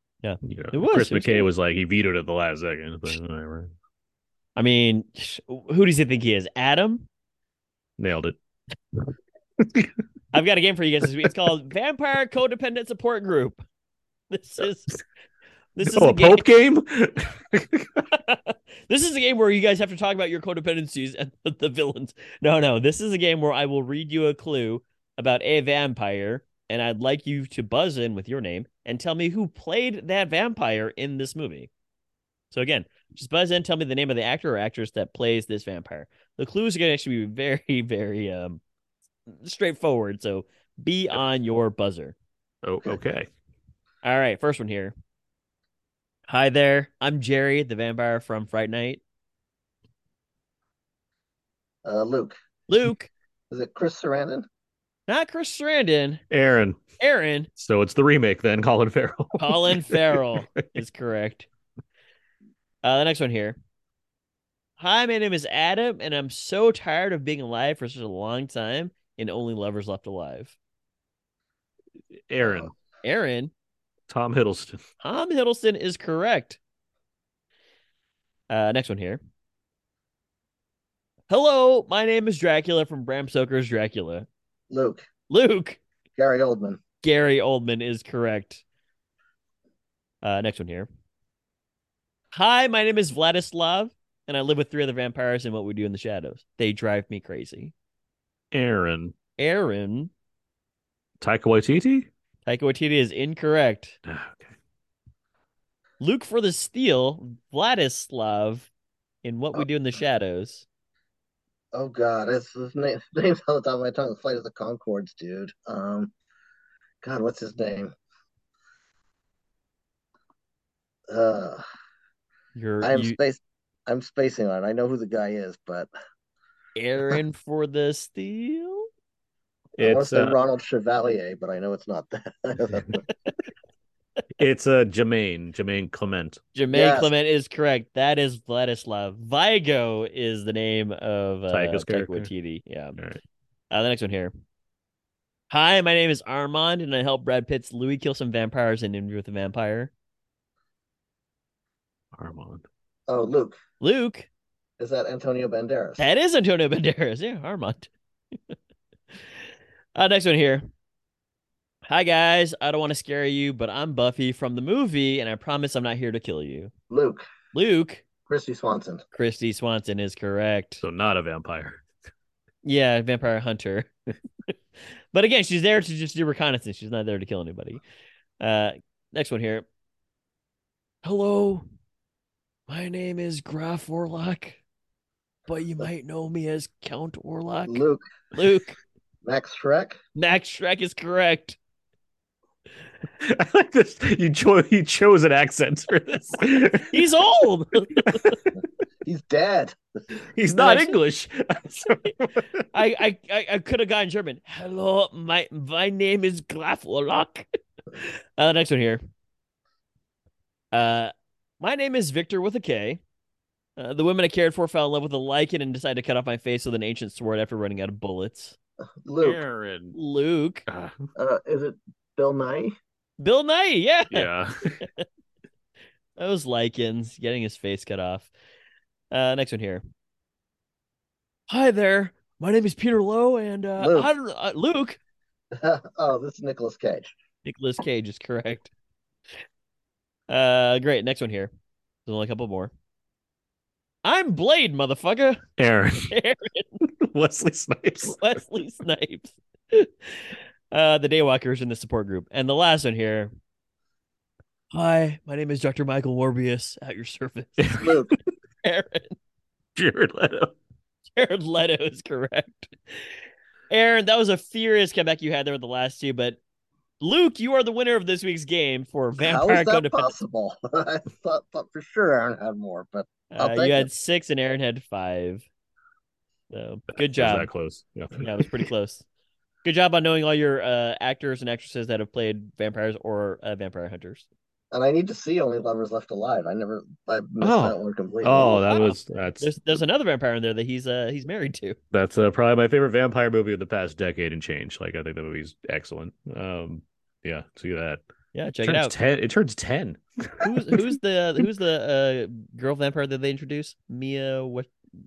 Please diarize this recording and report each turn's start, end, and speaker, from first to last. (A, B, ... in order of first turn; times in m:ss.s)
0:00.2-0:01.5 A
0:00.4-0:03.7 B
0:04.6-0:07.1 A
0:08.0-0:08.4 B
0:09.0-0:09.9 B
0:10.3-0:13.6 A
0:14.3-0:14.9 A
0:15.8-0:16.4 A
0:15.8-0:18.0 B
0:18.1-0:31.7 A
0:32.5-0:38.6 A
0:39.3-0:42.2 A
0:42.6-0:43.3 B
0:44.0-0:44.9 A
0:46.3-0:49.0 A
0:51.8-0:52.4 C
0:52.7-0:53.1 A
0:53.5-0:54.4 C
0:55.1-0:56.2 A
0:56.3-0:56.8 B
0:57.0-0:57.5 A
0:57.6-1:00.6 B
0:59.4-1:01.5 A
1:02.8-1:03.6 A
1:04.8-1:10.6 A
1:12.3-1:12.7 B
1:12.4-1:12.7 C
1:13.0-1:13.5 A
1:14.1-1:14.8 B
1:15.0-1:16.6 A
1:18.5-1:19.2 A
1:21.3-1:24.3 A
1:24.7-1:25.1 C
1:25.3-1:25.8 A
1:26.2-1:26.8 C
1:27.0-1:28.6 A
1:30.2-1:30.9 A
1:32.3-1:37.7 A
1:38.5-1:39.1 B
1:39.4-1:40.1 A
1:41.2-1:42.1 B
1:42.4-1:44.0 A
1:44.1-1:44.5 B
1:46.0-1:48.7 A
1:49.2-1:50.6 A
1:51.7-1:56.1 C
1:57.0-1:57.9 C
2:01.1-2:01.6 C
2:02.6-2:03.2 A
2:02.8-2:05.9 C
2:06.8-2:08.9 A
2:09.8-2:10.4 B
2:09.8-2:13.0 C
2:14.4-2:16.4 B
2:16.6-2:23.0 A
2:16.7-2:17.1 C
2:21.5-2:22.3 B
2:23.7-2:24.3 A
2:25.5-2:29.9 A
2:32.2-2:32.6 B
2:33.1-2:33.6 C
2:33.8-2:34.3 A
2:34.8-2:36.0 C
2:36.0-2:37.9 A
2:40.0-2:40.7 A
2:41.8-2:46.7 A
2:46.9-2:47.3 C
2:47.5-2:48.0 A
2:48.3-2:49.0 C
2:49.1-2:50.8 A
2:50.8-2:51.8 B
2:52.6-2:53.9 A
2:55.1-2:57.8 A
2:58.4-2:59.6 A
3:01.0-3:01.7 A
3:02.7-3:04.6 A
3:05.5-3:08.8 A
3:07.7-3:08.0 C
3:09.2-3:10.0 C
3:10.2-3:11.6 A
3:13.2-3:17.0 B
3:16.9-3:18.4 A
3:18.1-3:18.3 B
3:19.0-3:19.8 C
3:20.4-3:22.6 B
3:20.5-3:21.0 A
3:22.7-3:29.0 A
3:30.7-3:33.0 A
3:33.8-3:38.6 A
3:39.0-3:39.4 C
3:39.2-3:40.0 B
3:39.9-3:40.6 A
3:40.7-3:41.1 B
3:41.2-3:42.8 C
3:43.2-3:44.3 A
3:44.1-3:44.8 B
3:46.2-3:48.3 A
3:49.1-3:49.8 A
3:51.5-3:55.0 A
3:53.8-3:54.1 C
3:55.5-3:57.1 C
3:57.4-3:58.7 A
4:00.3-4:01.5 A
4:02.1-4:02.7 A
4:04.0-4:05.5 A
4:05.6-4:06.1 B
4:06.1-4:06.8 A
4:07.0-4:08.2 B
4:08.0-4:13.3 A
4:14.7-4:17.9 A
4:17.8-4:18.1 C
4:18.6-4:19.2 A
4:19.8-4:20.5 B
4:21.2-4:23.1 A
4:23.7-4:26.4 A
4:27.0-4:30.1 A
4:29.2-4:33.9 C
4:33.3-4:35.4 A
4:36.5-4:37.5 A
4:37.1-4:38.5 B
4:38.2-4:39.0 A
4:39.6-4:44.3 A
4:44.7-4:48.7 C
4:47.4-4:49.8 B
4:48.7-4:51.8 A
4:51.9-4:58.0 B
4:58.3-4:58.9 A
4:58.6-5:01.0 B
5:00.4-5:04.7 A